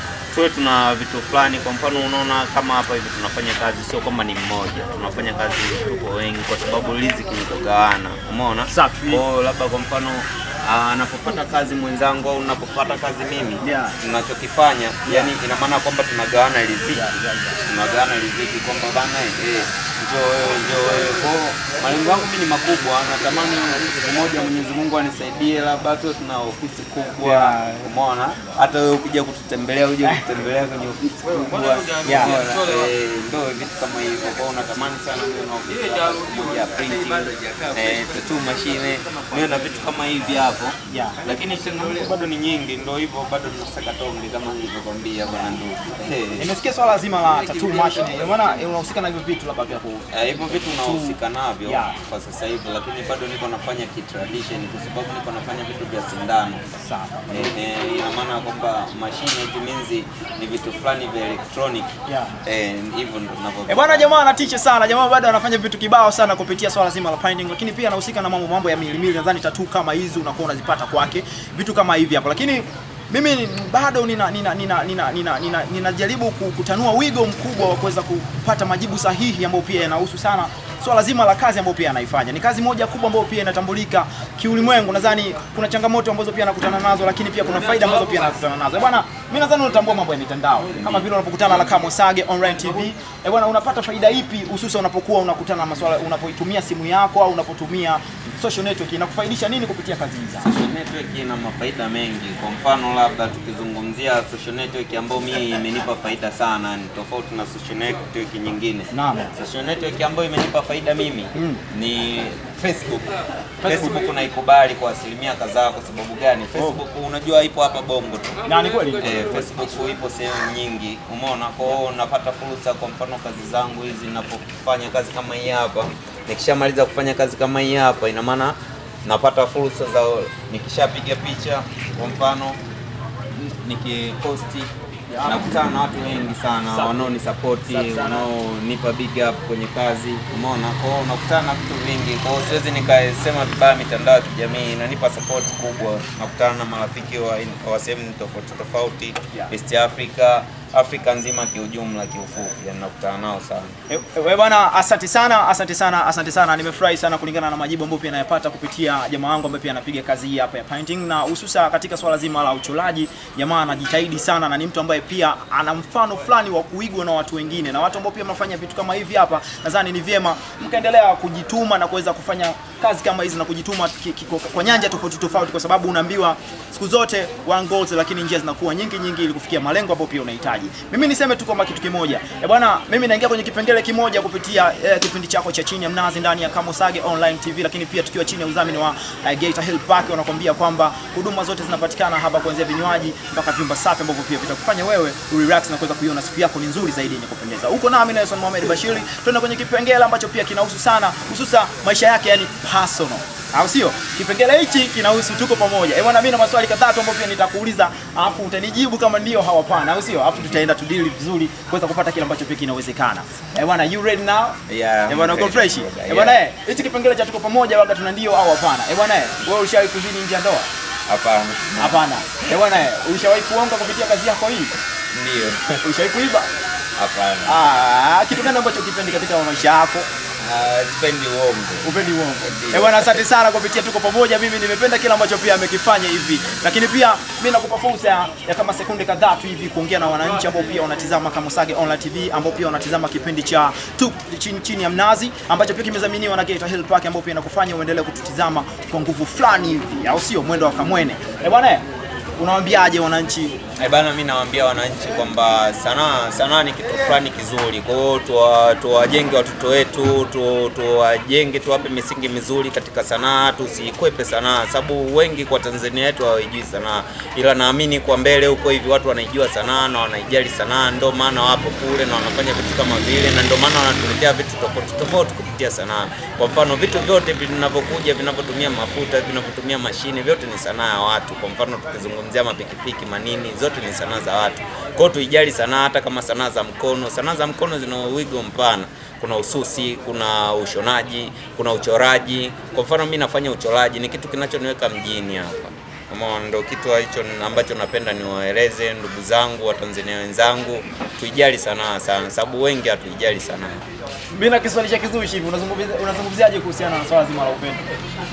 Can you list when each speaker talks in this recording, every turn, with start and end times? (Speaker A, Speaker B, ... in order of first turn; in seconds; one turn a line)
Speaker A: 0.3-17.1
Speaker B: 8.7-9.2
Speaker B: 13.6-14.0
Speaker B: 15.1-15.3
Speaker B: 16.9-17.6
Speaker A: 17.7-46.5
Speaker B: 27.2-27.9
Speaker B: 32.0-32.3
Speaker B: 40.9-41.2
Speaker B: 46.4-50.0
Speaker A: 50.1-56.6
Speaker B: 50.8-52.0
Speaker B: 56.8-57.5
Speaker A: 57.3-61.9
Speaker B: 62.1-62.4
Speaker A: 62.4-64.1
Speaker B: 63.7-100.5
Speaker A: 90.8-91.0
Speaker A: 100.4-113.1
Speaker B: 108.9-109.3
Speaker B: 111.3-111.6
Speaker B: 113.6-114.0
Speaker A: 113.6-118.4
Speaker B: 118.4-119.1
Speaker A: 119.0-132.6
Speaker A: 133.3-134.7
Speaker B: 135.1-135.6
Speaker A: 135.2-153.7
Speaker B: 136.7-137.1
Speaker B: 137.7-138.3
Speaker B: 153.9-220.7
Speaker A: 214.7-216.4
Speaker A: 221.1-222.0
Speaker B: 221.8-224.7
Speaker A: 225.1-225.7
Speaker B: 225.8-226.5
Speaker A: 227.0-227.6
Speaker B: 227.4-230.1
Speaker A: 230.4-233.2
Speaker B: 231.8-251.8
Speaker B: 252.4-253.6
Speaker A: 253.8-303.8
Speaker B: 304.3-307.8